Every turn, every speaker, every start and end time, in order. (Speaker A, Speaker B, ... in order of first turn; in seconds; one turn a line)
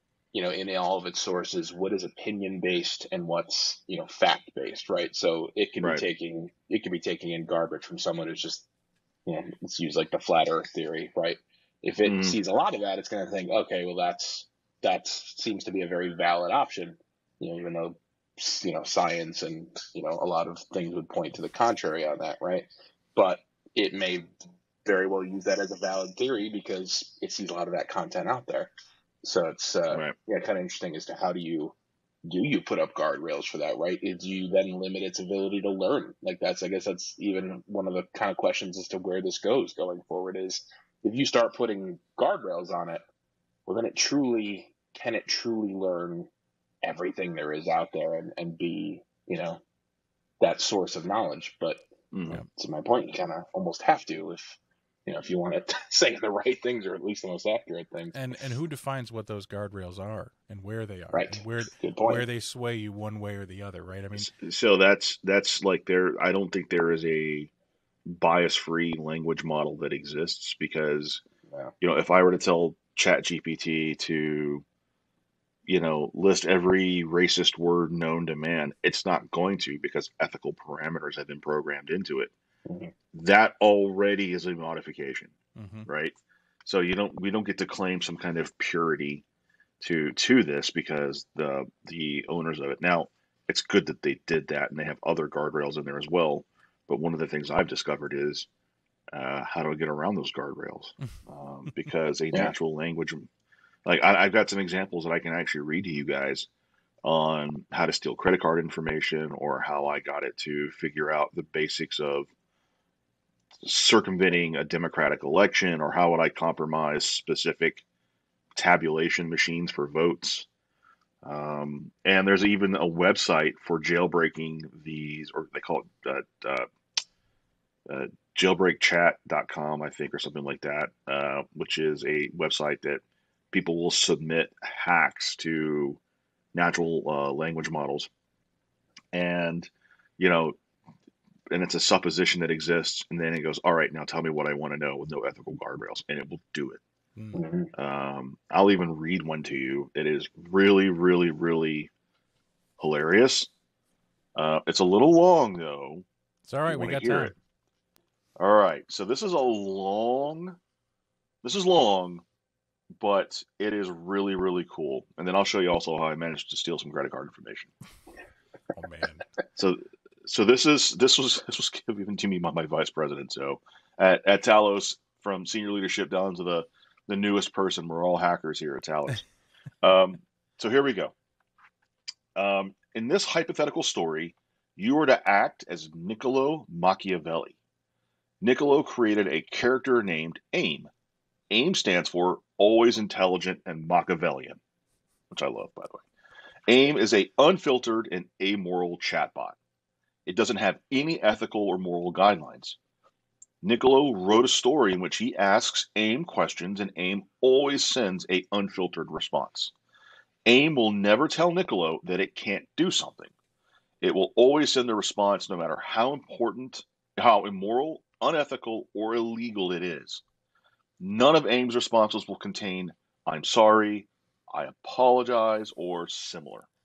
Speaker A: 0.3-8.7
Speaker A: 9.2-24.3
Speaker B: 12.0-12.4
Speaker A: 24.8-28.7
Speaker A: 29.2-43.0
Speaker A: 43.7-46.3
Speaker A: 46.8-49.6
Speaker A: 50.4-51.8
Speaker B: 52.1-52.4
Speaker A: 52.5-58.2
Speaker C: 58.1-64.3
Speaker A: 61.1-62.2
Speaker B: 64.1-67.5
Speaker B: 68.1-71.2
Speaker B: 71.8-74.6
Speaker B: 75.7-82.3
Speaker A: 82.7-82.9
Speaker B: 83.1-85.3
Speaker C: 85.5-85.9
Speaker B: 85.8-89.2
Speaker B: 89.8-98.5
Speaker B: 99.1-103.3
Speaker B: 103.8-106.5
Speaker B: 107.0-112.3
Speaker B: 113.6-117.8
Speaker B: 118.5-120.5
Speaker B: 121.2-126.7
Speaker B: 127.9-136.0
Speaker B: 136.5-138.1
Speaker B: 139.1-140.6
Speaker B: 141.5-146.8
Speaker C: 147.2-147.4
Speaker A: 147.3-147.7
Speaker B: 147.7-151.9
Speaker B: 152.8-153.5
Speaker B: 154.3-156.0
Speaker C: 156.5-157.3
Speaker B: 156.7-157.3
Speaker B: 158.4-160.6
Speaker B: 161.4-162.2
Speaker B: 162.9-167.7
Speaker C: 168.7-169.2
Speaker B: 169.6-179.2
Speaker B: 179.8-181.1
Speaker B: 182.3-187.6
Speaker B: 188.4-190.9
Speaker B: 191.5-194.6
Speaker B: 195.3-196.0
Speaker B: 196.7-199.6
Speaker B: 200.2-202.8
Speaker B: 203.6-209.7
Speaker B: 210.4-213.3
Speaker B: 214.0-220.2
Speaker B: 221.0-226.7